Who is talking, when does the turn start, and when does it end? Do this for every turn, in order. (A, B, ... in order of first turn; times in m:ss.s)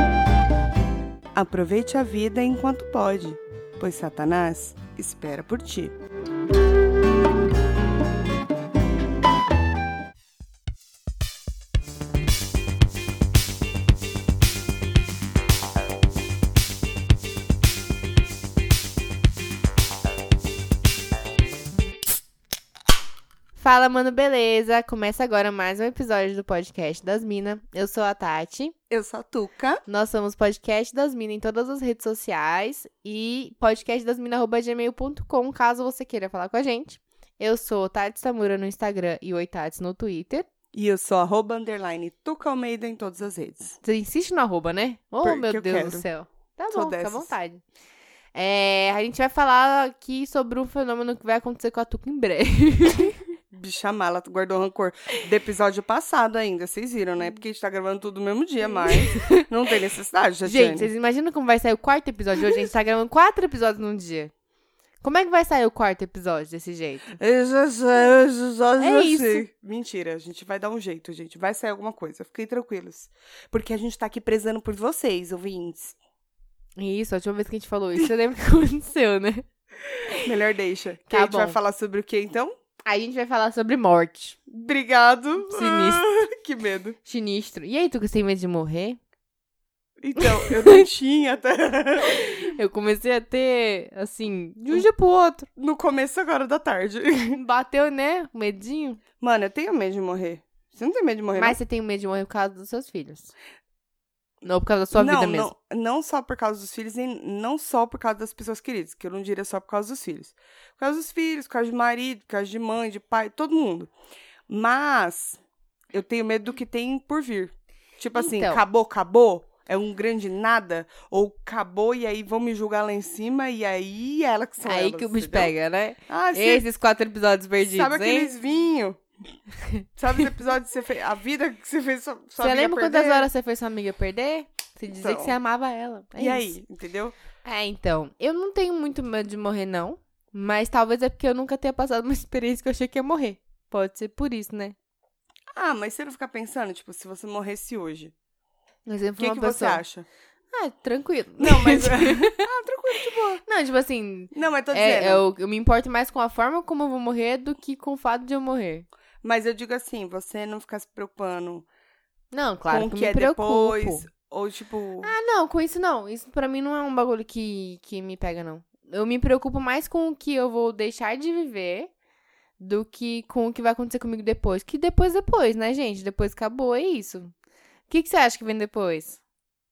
0:01.3-0:05.9 A
0:23.6-0:28.7 B
0:28.9-0:29.8 A
0:29.9-0:40.5 B
0:40.7-0:43.8 A
0:43.8-0:47.6 B
0:45.2-0:46.0 A
0:46.7-0:47.3 A
0:48.3-0:53.2 B
0:53.5-1:00.9 A
0:58.8-0:59.4 B
1:00.4-1:04.3 B
1:05.0-1:07.1 B
1:07.2-1:16.0 A
1:08.8-1:09.4 B
1:16.8-1:19.5 B
1:20.2-1:22.5 A
1:21.1-1:21.6 B
1:22.8-1:24.4 B
1:24.5-1:27.0 A
1:25.4-1:26.1 B
1:27.0-1:29.0 B
1:30.0-1:32.4 A
1:30.2-1:30.8 B
1:32.0-1:35.5 B
1:35.6-1:37.4 A
1:37.2-1:39.0 B
1:39.2-1:41.6 A
1:41.4-1:43.3 B
1:44.4-1:45.5 B
1:44.9-1:53.9 A
1:54.5-1:55.4 A
1:55.9-2:05.5 A
1:58.1-1:58.6 B
2:04.6-2:08.3 B
2:06.1-2:06.6 A
2:07.6-2:09.0 A
2:09.6-2:10.2 B
2:10.0-2:13.3 A
2:12.4-2:16.6 B
2:14.9-2:15.3 A
2:16.2-2:17.1 A
2:17.4-2:24.7 B
2:25.5-2:28.1 A
2:28.8-2:29.8 B
2:29.2-2:30.1 A
2:30.5-2:32.4 B
2:31.4-2:33.4 A
2:33.4-2:38.9 B
2:34.3-2:35.2 A
2:39.2-2:41.7 A
2:42.3-2:44.1 B
2:42.7-2:45.1 A
2:45.0-2:51.9 B
2:52.6-2:57.3 B
2:57.9-2:59.2 B